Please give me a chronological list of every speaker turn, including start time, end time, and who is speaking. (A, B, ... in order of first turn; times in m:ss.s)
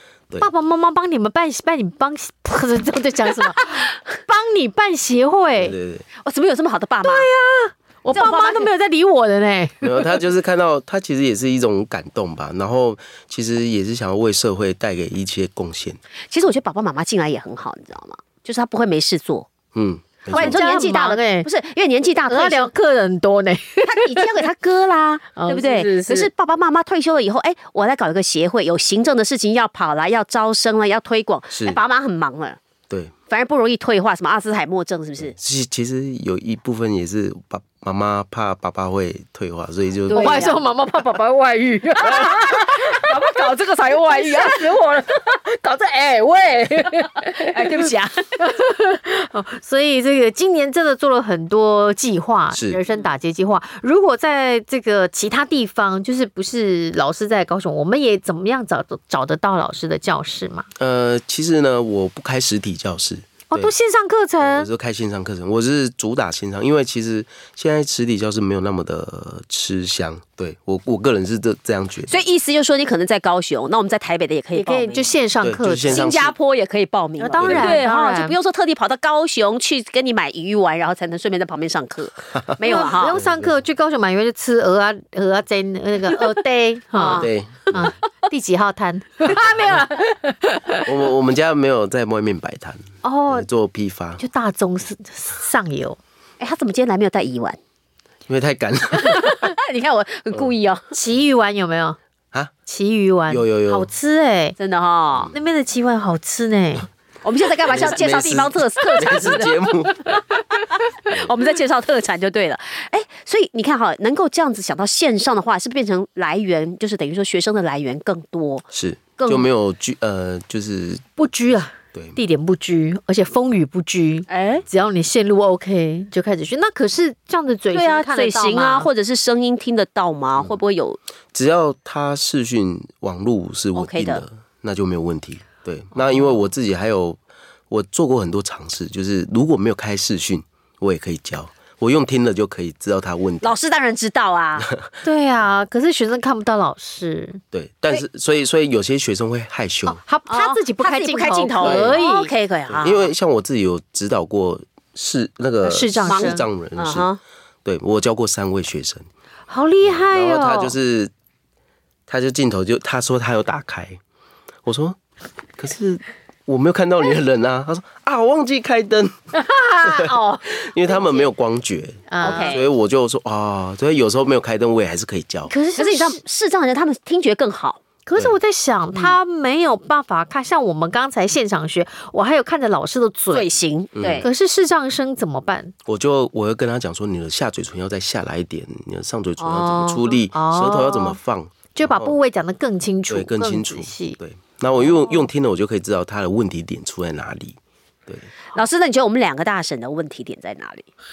0:00.4-0:05.8 A
0:05.6-0:06.1 B
0:06.2-0:07.3 C
0:07.0-0:10.0 A
0:08.1-0:08.7 C
0:09.8-0:16.0 B
0:16.3-0:19.5 C
0:19.7-0:20.8 B
0:20.3-0:22.7 C
0:20.3-0:21.5 A
0:22.3-0:24.5 A
0:23.8-0:32.6 C
0:25.3-0:26.3 A
0:31.5-0:31.8 B
0:33.3-0:35.3 C
0:35.2-0:40.6 B
0:40.1-0:40.6 C
0:40.1-0:43.1 A
0:42.0-0:45.0 C
0:43.9-1:00.7 A
0:47.3-0:48.3 C
0:52.5-0:52.8 B
1:00.8-1:03.7 B
1:03.5-1:04.7 A
1:04.4-1:12.2 B
1:12.1-1:15.1 C
1:14.5-1:16.0 A
1:15.4-1:16.3 B
1:15.8-1:23.2 C
1:17.2-1:18.4 A
1:17.4-1:17.8 B
1:22.6-1:30.8 A
1:23.1-1:23.5 B
1:26.9-1:27.3 C
1:27.1-1:27.9 B
1:29.3-1:29.8 B
1:30.8-1:34.2 B
1:33.0-1:33.5 A
1:34.2-1:36.0 A
1:36.4-1:37.6 C
1:38.3-1:39.4 B
1:39.0-1:40.8 C
1:40.9-1:42.0 A
1:42.6-1:44.5 A
1:43.3-1:43.9 B
1:44.6-1:45.3 C
1:45.3-1:46.9 A
1:47.2-1:49.6 C
1:47.6-1:50.2 B
1:50.1-1:58.6 C
1:58.7-2:01.1 B
1:59.2-1:59.5 C
2:01.2-2:08.9 A
2:01.9-2:02.2 B
2:04.3-2:04.6 C
2:07.7-2:11.0 C
2:11.3-2:17.2 B
2:13.7-2:14.2 C
2:17.7-2:23.5 B
2:23.4-2:24.7 C
2:24.6-2:24.9 B
2:25.0-2:27.4 A
2:27.5-2:30.0 B
2:29.8-2:32.3 A
2:30.3-2:33.1 C
2:31.6-2:32.0 B
2:32.7-2:37.1 B
2:35.6-2:36.4 A
2:36.0-2:37.2 C
2:37.6-2:39.1 B
2:39.5-2:40.7 A
2:39.8-2:41.1 B
2:42.1-2:44.0 B
2:44.6-2:45.0 B
2:45.6-2:49.2 B
2:49.3-2:51.2 A
2:49.8-2:55.5 B
2:52.1-2:52.6 A
2:52.2-2:52.6 C
2:55.5-2:56.2 A
2:55.8-2:57.8 C
2:58.0-3:03.5 A
3:03.3-3:04.3 C
3:04.0-3:04.3 B
3:04.2-3:05.7 A
3:05.8-3:12.2 B
3:09.4-3:10.2 C
3:10.3-3:11.2 A
3:11.7-3:14.2 A
3:13.1-3:18.3 B
3:18.5-3:20.9 C